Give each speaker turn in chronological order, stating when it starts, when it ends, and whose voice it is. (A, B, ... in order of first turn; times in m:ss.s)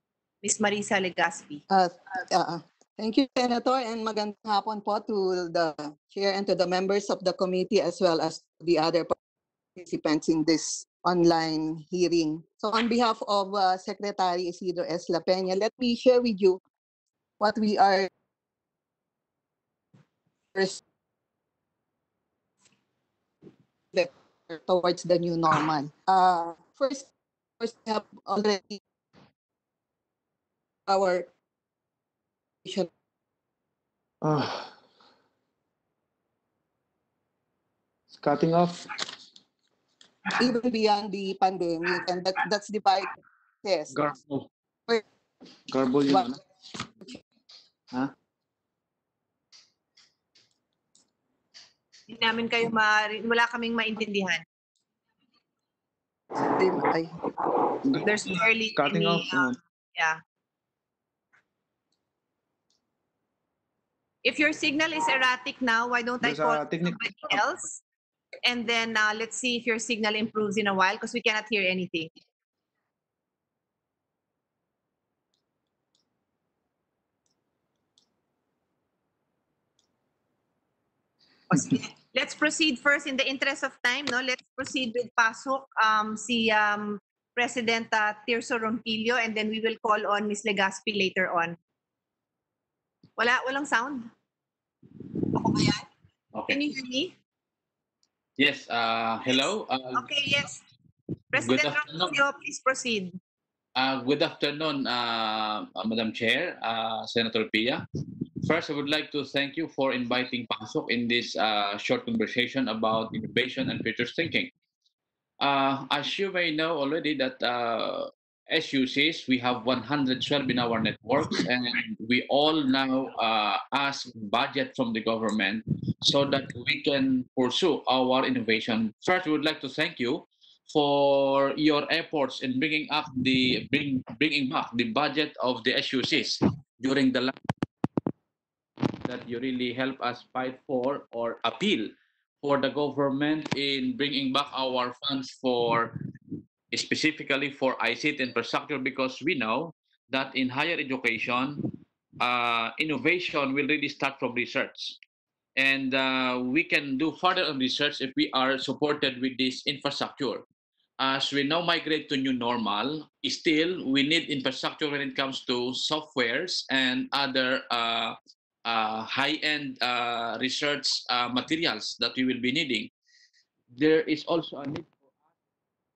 0:00.4-0:01.6 A
0:01.7-0:09.2 B
0:09.8-0:16.6 B
0:17.4-0:18.1 B
0:20.6-0:20.8 B
0:23.9-0:27.1 B
0:27.6-0:28.8 B
0:30.9-0:31.3 B
0:32.6-0:32.9 B
0:34.2-0:34.7 C
0:38.1-0:38.9 C
0:40.4-0:43.1 B
0:43.6-0:44.0 B
0:43.9-0:44.5 C
0:45.7-0:46.4 C
0:52.1-0:54.4 A
0:56.4-0:57.1 B
0:57.9-0:59.6 C
0:58.0-1:00.2 A
1:04.2-1:07.8 A
1:06.2-1:07.4 C
1:08.4-1:12.1 A
1:21.5-1:31.6 A
1:33.2-1:34.1 A
1:35.4-1:35.8 A
1:36.3-1:36.6 D
1:36.5-1:37.1 A
1:38.4-1:40.1 D
1:39.3-1:40.6 A
1:41.3-1:43.2 A
1:41.4-1:42.2 D
1:43.8-1:47.8 D
1:48.4-1:54.5 D
1:55.4-2:17.3 D
2:19.0-2:26.0 D
2:26.7-2:35.0 D
2:35.6-2:40.4 D
2:41.0-2:52.9 D
2:53.7-2:54.9 D